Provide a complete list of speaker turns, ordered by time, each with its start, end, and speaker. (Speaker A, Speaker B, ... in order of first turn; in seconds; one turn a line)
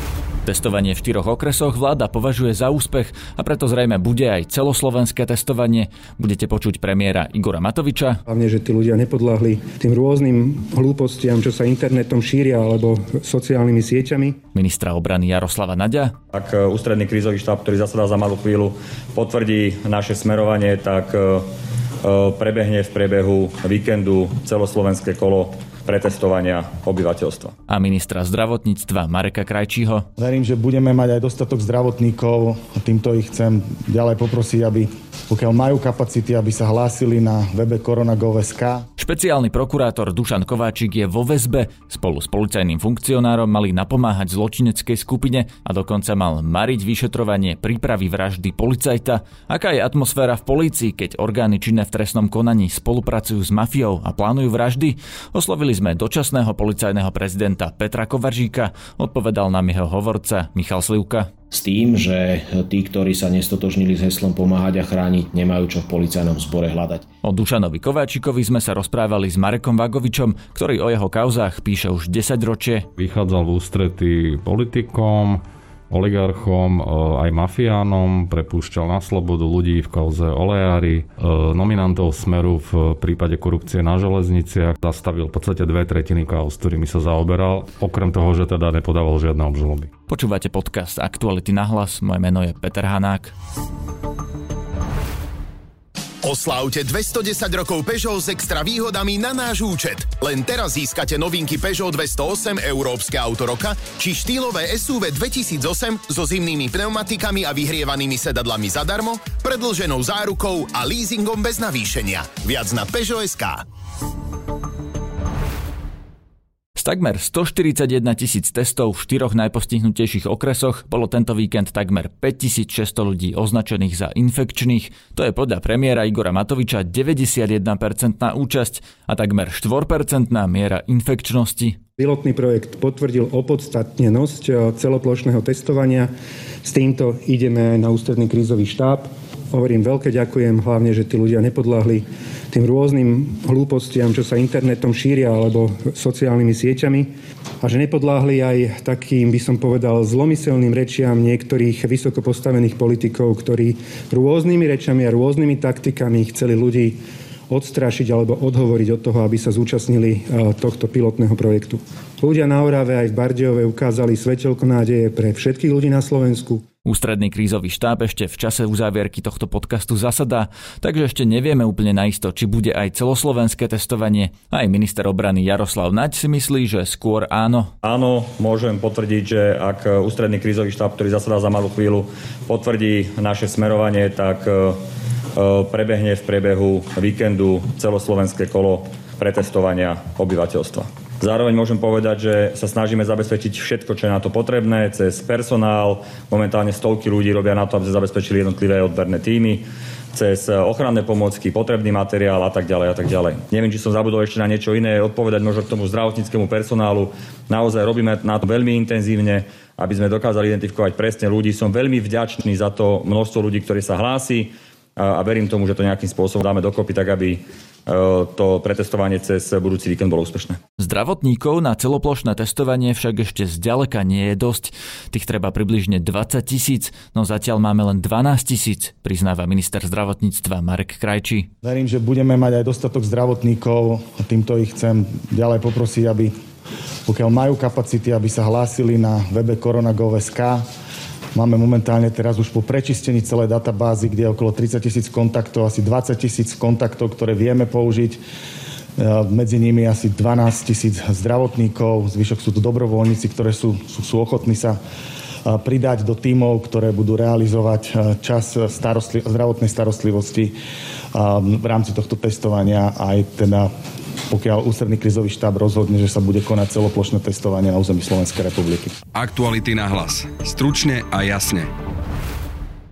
Speaker A: 0.4-8.2
Speaker B: 8.3-14.3
Speaker A: 14.5-16.1
Speaker C: 16.3-21.4
Speaker C: 22.0-27.5
Speaker A: 27.7-30.1
Speaker D: 30.2-38.8
Speaker A: 39.0-61.3
Speaker E: 61.5-67.0
Speaker A: 67.2-72.8
Speaker F: 73.0-89.9
Speaker A: 90.1-93.3
Speaker G: 96.2-113.6
Speaker A: 116.8-131.8
Speaker B: 132.0-136.1
Speaker B: 136.6-147.1
Speaker B: 147.6-157.0
Speaker B: 157.5-166.6
Speaker A: 166.8-177.7
Speaker C: 177.8-184.8
Speaker C: 185.3-220.6
Speaker A: 220.8-231.5
Speaker D: 231.6-236.3
Speaker D: 237.1-240.6
Speaker D: 241.3-248.2
Speaker D: 249.0-254.8
Speaker D: 255.4-260.5
Speaker D: 261.1-263.7
Speaker D: 264.3-268.9
Speaker H: 269.1-271.7